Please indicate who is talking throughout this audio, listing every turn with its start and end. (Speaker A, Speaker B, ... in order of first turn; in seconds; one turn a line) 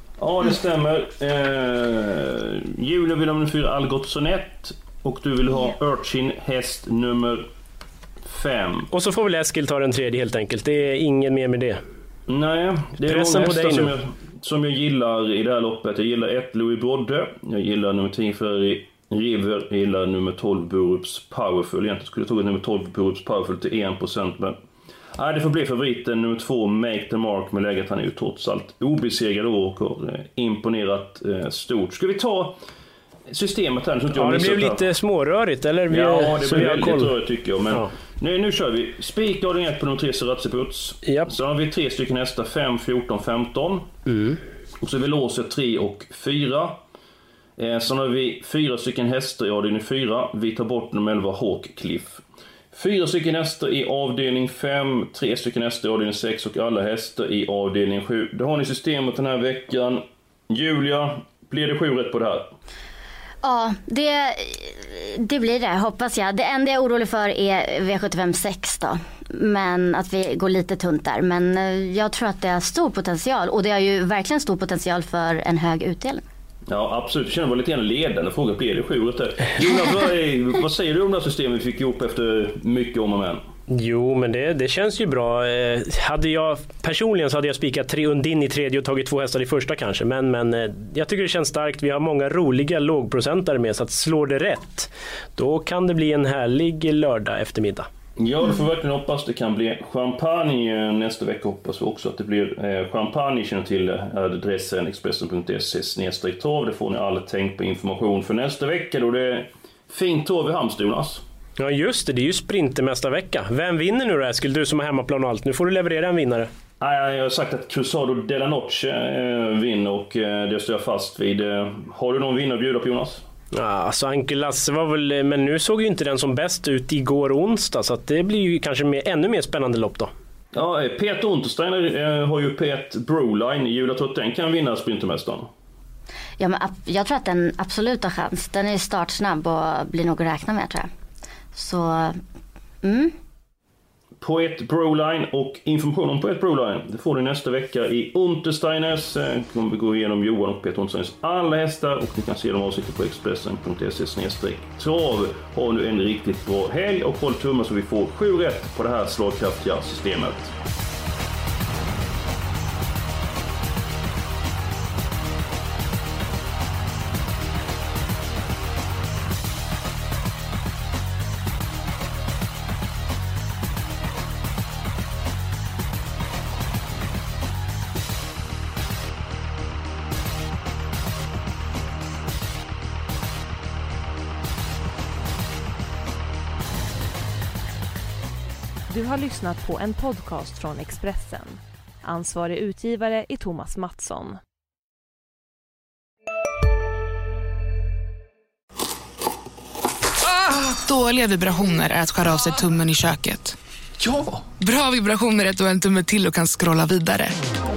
Speaker A: 0.2-7.5
Speaker A: 8.2-8.9
Speaker B: 8.9-11.8
Speaker A: 12.3-24.6
Speaker B: 13.1-13.9
Speaker A: 25.1-32.6
Speaker A: 33.3-34.8
Speaker B: 34.1-37.1
Speaker A: 35.9-43.9
Speaker B: 41.0-41.3
Speaker B: 44.1-44.4
Speaker A: 44.8-46.8
Speaker A: 47.6-52.2
Speaker A: 52.7-62.5
Speaker C: 63.4-76.2
Speaker A: 76.7-83.4
Speaker B: 83.7-97.9
Speaker A: 98.2-111.2
Speaker B: 111.6-116.5
Speaker A: 116.8-123.2
Speaker B: 123.5-130.1
Speaker A: 130.5-135.5
Speaker C: 136.4-140.9
Speaker C: 141.5-142.2
Speaker C: 142.8-143.1
Speaker A: 144.2-160.5
Speaker D: 188.9-194.4
Speaker E: 200.2-207.4